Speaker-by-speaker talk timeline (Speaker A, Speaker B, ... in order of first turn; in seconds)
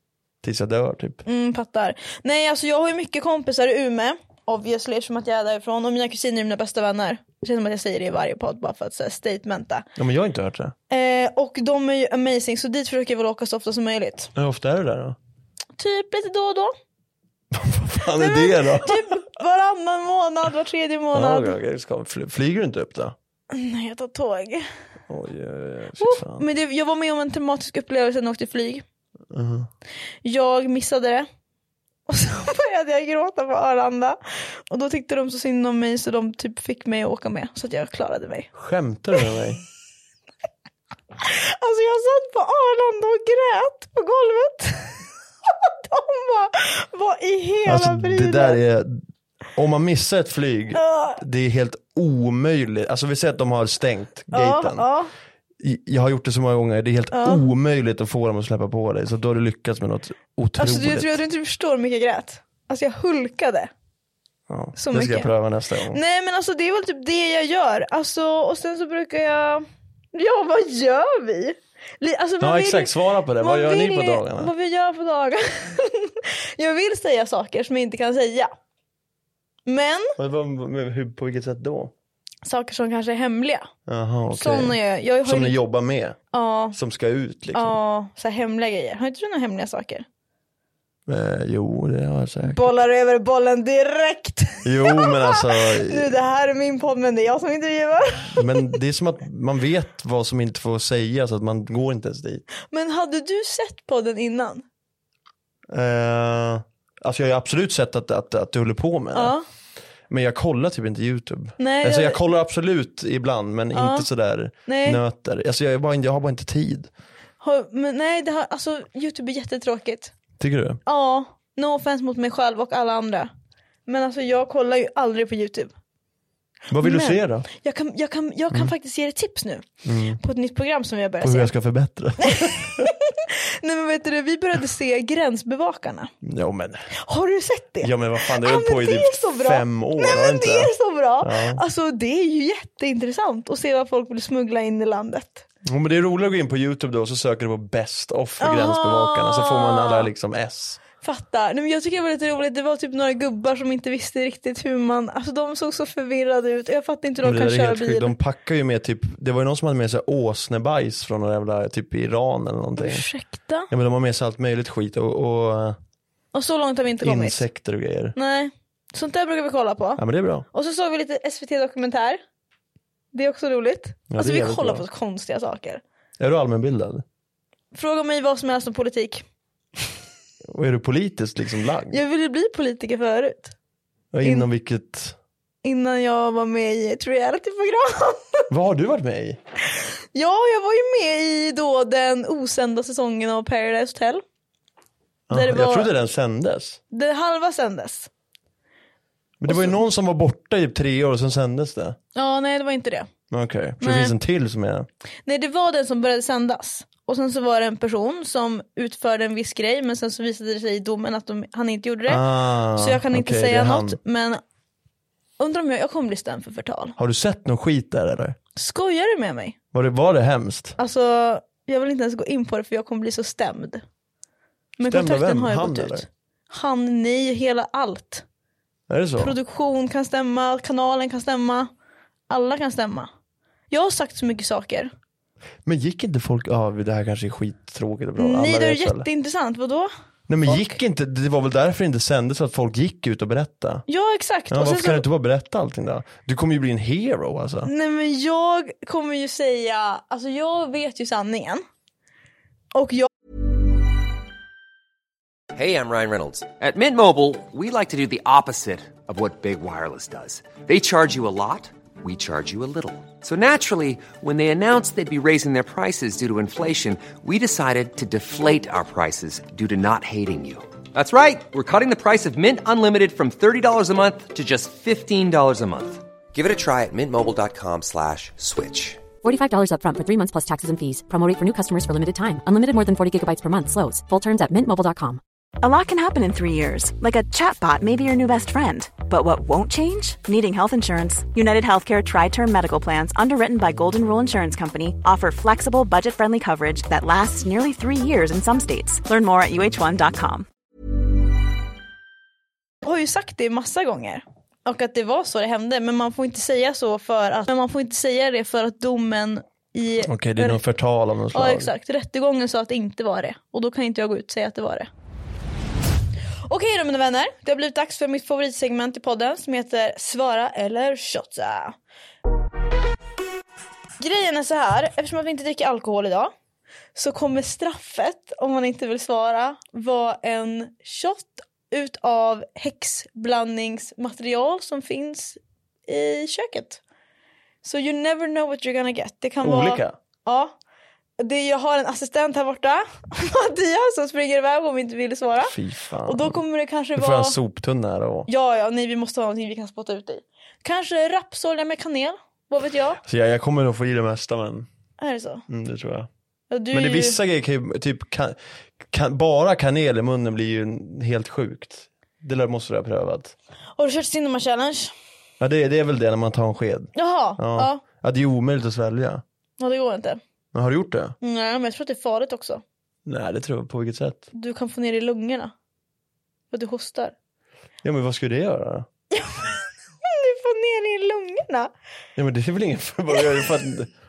Speaker A: 0.4-1.2, 10.0-10.7, 14.3-15.2, 17.5-19.1, 21.1-23.2, 25.1-26.4, 29.3-29.7, 38.5-39.6, 47.7-49.0, 49.5-54.9, 55.6-61.2, 64.5-66.0, 72.4-74.5, 80.2-81.9, 83.9-86.2, 86.7-87.8, 91.1-92.7, 94.6-96.1, 98.3-102.4, 105.7-109.4, 110.1-116.9, 120.4-120.8, 126.7-127.5, 129.8-130.2, 131.2-132.9, 136.2-136.9, 137.8-141.6, 145.7-150.8, 157.2-163.1, 163.7-165.8, 167.0-168.2, 170.0-170.4, 174.1-174.8, 176.2-177.0, 180.5-182.0, 184.1-185.2, 188.5-189.4, 195.3-196.8, 199.4-202.0, 203.3-204.9, 212.1-214.0, 217.0-218.4, 219.7-220.8, 224.8-226.1, 228.9-229.4, 235.7-239.1, 240.3-243.8, 244.5-247.7, 310.0-311.7, 339.4-340.0, 345.4-346.4, 346.9-348.3, 353.0-354.7, 355.5-356.1, 356.7-358.4, 358.9-363.3, 365.4-369.2, 370.5-371.1, 373.1-374.3, 377.8-378.9, 382.2-383.9
Speaker B: 1.2-9.8, 10.9-14.3, 15.8-16.7, 18.1-21.6, 23.5-24.7, 26.0-28.8, 30.2-31.3, 32.1-38.5, 41.2-48.6, 50.7-51.2, 54.3-55.1, 57.1-57.5, 60.6-63.7, 64.8-65.3, 65.9-78.5, 79.7-80.2, 82.4-83.7, 84.3-85.6, 86.3-86.8, 87.5-90.0, 92.5-98.8, 102.6-104.6, 109.1-109.4, 111.6-112.2, 113.7-114.1, 114.7-115.0, 117.4-120.1, 120.9-123.3, 123.9-125.7, 126.8-129.7, 130.2-131.5, 132.2-136.1, 136.9-145.5, 148.4-150.1, 151.0-158.2, 162.8-163.7, 166.3-167.5, 168.2-172.2, 173.1-175.8, 177.7-179.2, 181.9-183.5, 185.6-188.5, 190.1-194.2, 195.3-195.9, 196.9-198.1, 199.5-199.8, 202.2-203.1, 203.8-204.2, 205.2-212.2, 212.8-214.4, 215.4-217.0, 218.6-219.6, 220.8-223.8, 224.8-228.2, 229.2-231.7, 232.3-233.1, 233.7-234.9, 238.2-239.9, 240.5-240.8, 243.9-245.0, 247.7-251.6, 252.8-253.1, 302.8-310.6, 311.3-314.9, 316.5-321.8, 324.0-326.3, 326.9-336.8, 337.6-340.5, 341.2-347.4, 348.3-353.0, 355.0-355.4, 356.5-357.2, 363.8-364.9, 366.9-367.8, 369.6-370.2, 371.2-372.6, 374.3-375.5, 376.5-377.1, 379.1-381.7
Speaker C: 255.5-279.0
Speaker D: 279.2-285.2
Speaker E: 285.6-300.5